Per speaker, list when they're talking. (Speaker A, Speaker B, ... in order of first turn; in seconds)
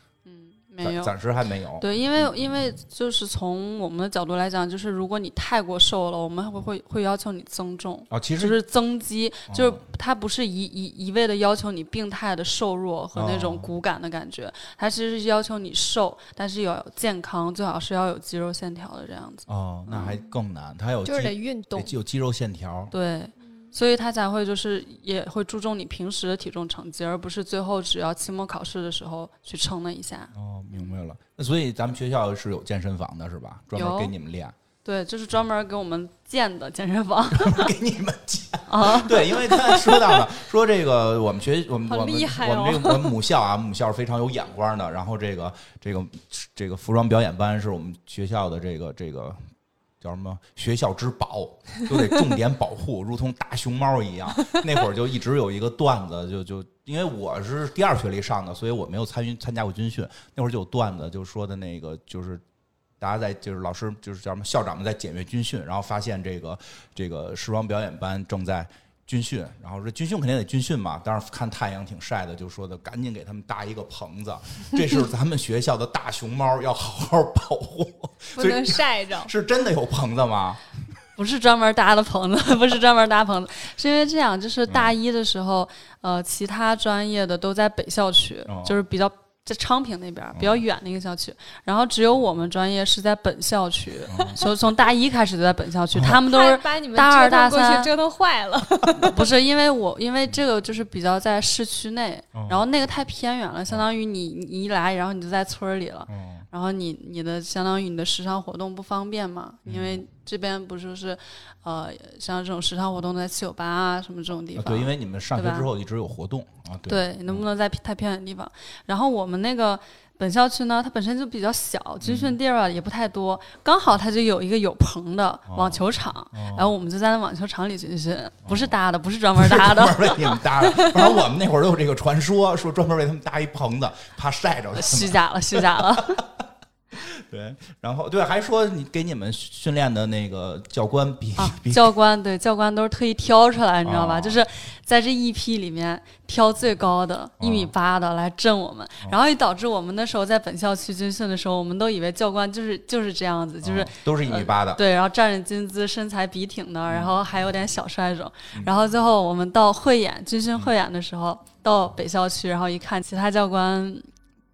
Speaker A: 0.3-1.1, 1.8-20.2, 22.9-30.3, 33.8-34.1, 34.8-37.7, 38.7-39.4, 81.2-97.9, 99.0-115.7, 116.9-131.0, 134.7-136.2, 141.4-164.1
Speaker B: 0.8-2.3, 8.1-8.6, 9.5-9.8, 13.2-13.7, 19.5-22.9, 30.3-34.5, 37.3-49.4, 50.0-62.4, 63.0-80.6, 84.7-84.9, 88.5-88.8, 90.3-90.6, 94.1-94.4, 102.3-102.7, 106.1-106.5, 109.7-110.0, 114.5-117.4, 122.0-122.4, 125.5-125.8, 126.3-126.7, 128.4-128.7, 129.4-136.2, 136.9-141.9, 143.8-144.4, 147.4-147.7, 153.6-154.8, 156.9-157.2
Speaker C: 21.1-21.9, 41.9-43.2, 78.4-79.3, 96.2-99.2